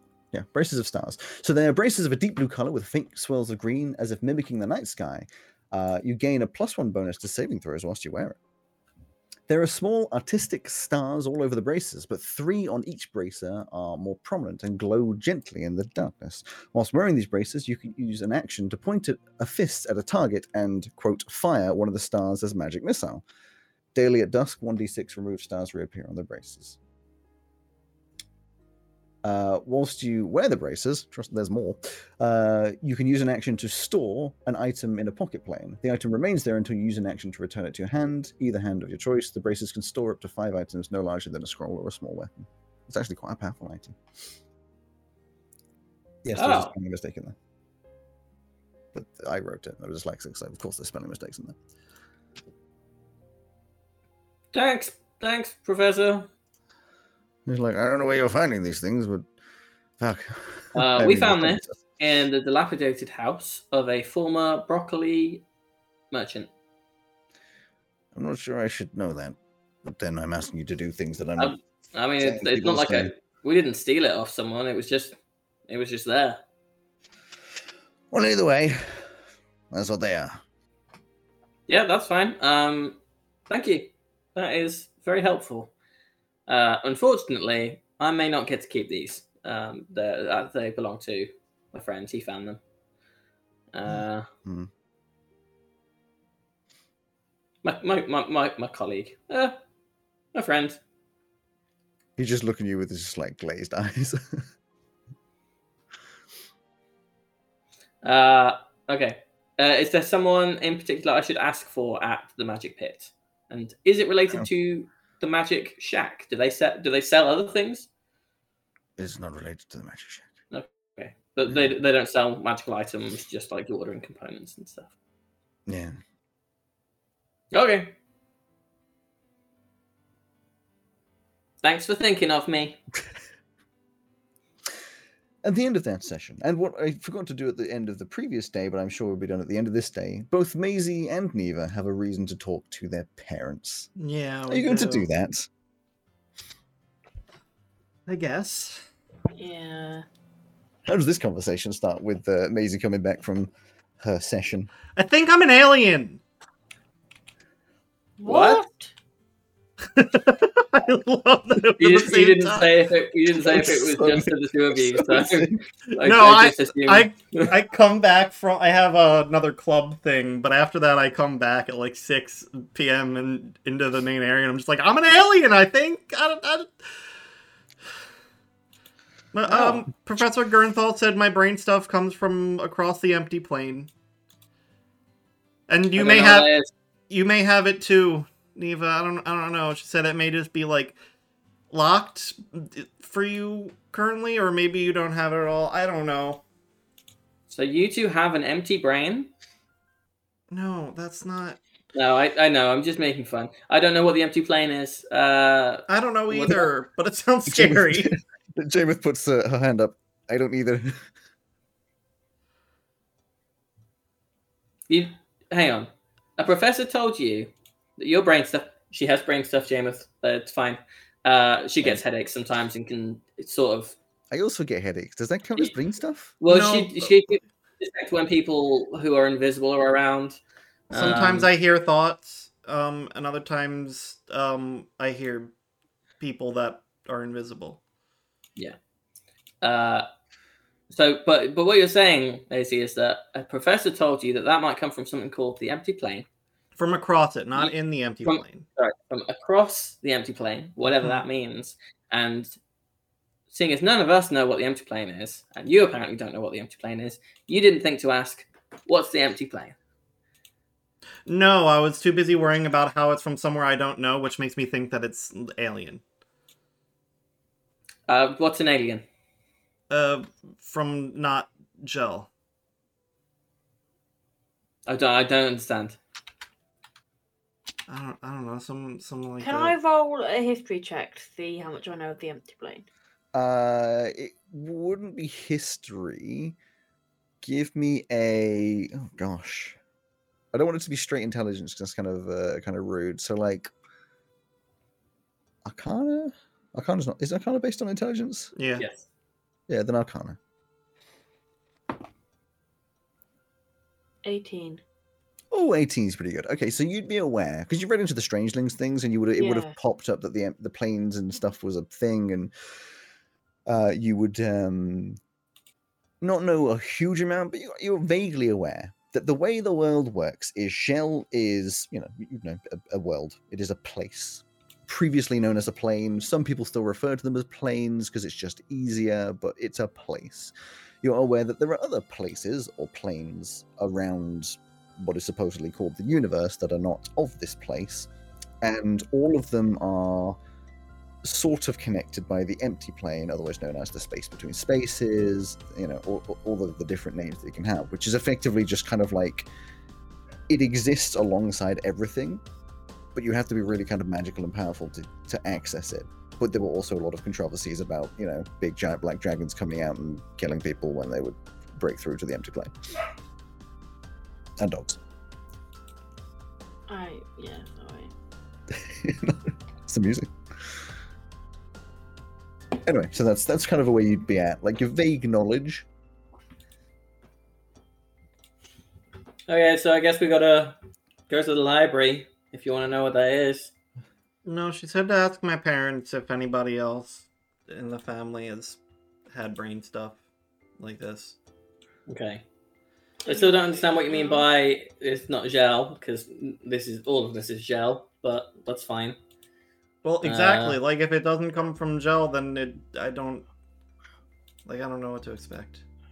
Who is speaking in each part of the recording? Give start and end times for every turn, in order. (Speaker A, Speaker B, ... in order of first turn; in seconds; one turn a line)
Speaker A: 0.3-8.4
Speaker A: 9.5-23.2
Speaker A: 23.9-26.8
Speaker A: 29.2-44.0
Speaker A: 46.2-47.3
Speaker B: 46.3-46.7
Speaker A: 48.9-51.5
Speaker B: 54.5-56.3
Speaker A: 57.5-59.3
Speaker A: 60.0-61.8
Speaker B: 60.7-65.4
Speaker B: 66.1-66.5
Speaker A: 68.1-71.5
Speaker B: 71.4-75.2
Speaker A: 72.2-73.1
Speaker B: 75.7-76.4
Speaker A: 78.1-79.1
Speaker A: 79.7-80.4
Speaker B: 81.7-83.0
Speaker B: 83.5-85.7
Speaker B: 86.5-92.6
Speaker B: 93.7-94.3
Speaker B: 97.6-99.6
Speaker B: 100.3-100.8
Speaker A: 102.2-104.4
Speaker B: 108.0-117.9
Speaker A: 119.0-120.3
Speaker B: 120.5-124.9
Speaker A: 125.7-126.0
Speaker B: 127.5-127.9
Speaker B: 131.6-132.8
Speaker A: 135.4-143.9
Speaker C: 144.0-145.1
Speaker A: 144.5-145.5
Speaker C: 148.1-148.8
Speaker D: 149.3-150.0
Speaker A: 150.8-154.7
Speaker C: 154.9-156.2
Speaker D: 158.2-158.9
Speaker B: 158.2-158.6
Speaker C: 159.9-162.7
Speaker B: 161.8-167.5
Speaker A: 163.3-165.6
Speaker C: 165.9-176.7
Speaker C: 179.3-183.9
Speaker C: 185.7-186.5
Speaker B: 185.9-186.7
Speaker C: 187.1-190.9
Speaker C: 191.7-196.4
Speaker B: 197.5-199.3
Speaker C: 200.5-201.6
Speaker B: 201.9-206.7
Speaker C: 205.9-208.1
Speaker A: 207.5-211.1
Speaker B: 214.9-223.9
Speaker A: 224.3-226.4
Speaker B: 226.4-230.4
Speaker C: 226.5-227.2
Speaker B: 230.9-231.5
Speaker C: 230.9-235.5
Speaker C: 236.2-237.8
Speaker B: 239.6-240.1
Speaker B: 240.9-246.2
Speaker C: 246.8-248.6
Speaker B: 247.6-252.6
Speaker C: 250.9-251.2
Speaker B: 253.5-259.7
Speaker C: 261.3-266.0
Speaker B: 268.1-269.0
Speaker C: 269.9-272.3
Speaker B: 274.9-276.0
Speaker C: 277.9-279.7
Speaker D: 279.4-282.8
Speaker A: 283.3-286.6
Speaker A: 287.4-289.8
Speaker A: 290.5-293.7
Speaker A: 295.6-298.5
Speaker C: 298.5-298.8
Speaker B: 298.8-299.1
Speaker A: 299.7-300.4
Speaker D: 304.2-304.8
Speaker A: 305.5-312.5
Speaker D: 309.4-309.7
Speaker A: 313.6-315.2
Speaker A: 316.2-338.1
Speaker A: 338.6-340.4
Speaker A: 341.2-349.5
Speaker A: 350.5-352.4
Speaker A: 353.1-362.7
Speaker A: 364.6-365.0
Speaker D: 366.9-368.1
Speaker A: 368.7-370.8
Speaker A: 372.8-375.9
Speaker B: 379.5-380.8
Speaker B: 381.3-383.7
Speaker C: 384.4-388.8
Speaker C: 389.3-390.2
Speaker C: 390.8-391.4
Speaker B: 392.1-392.4
Speaker D: 393.2-394.4
Speaker B: 393.2-399.2
Speaker C: 400.0-403.4
Speaker B: 400.2-400.8
Speaker C: 404.6-405.8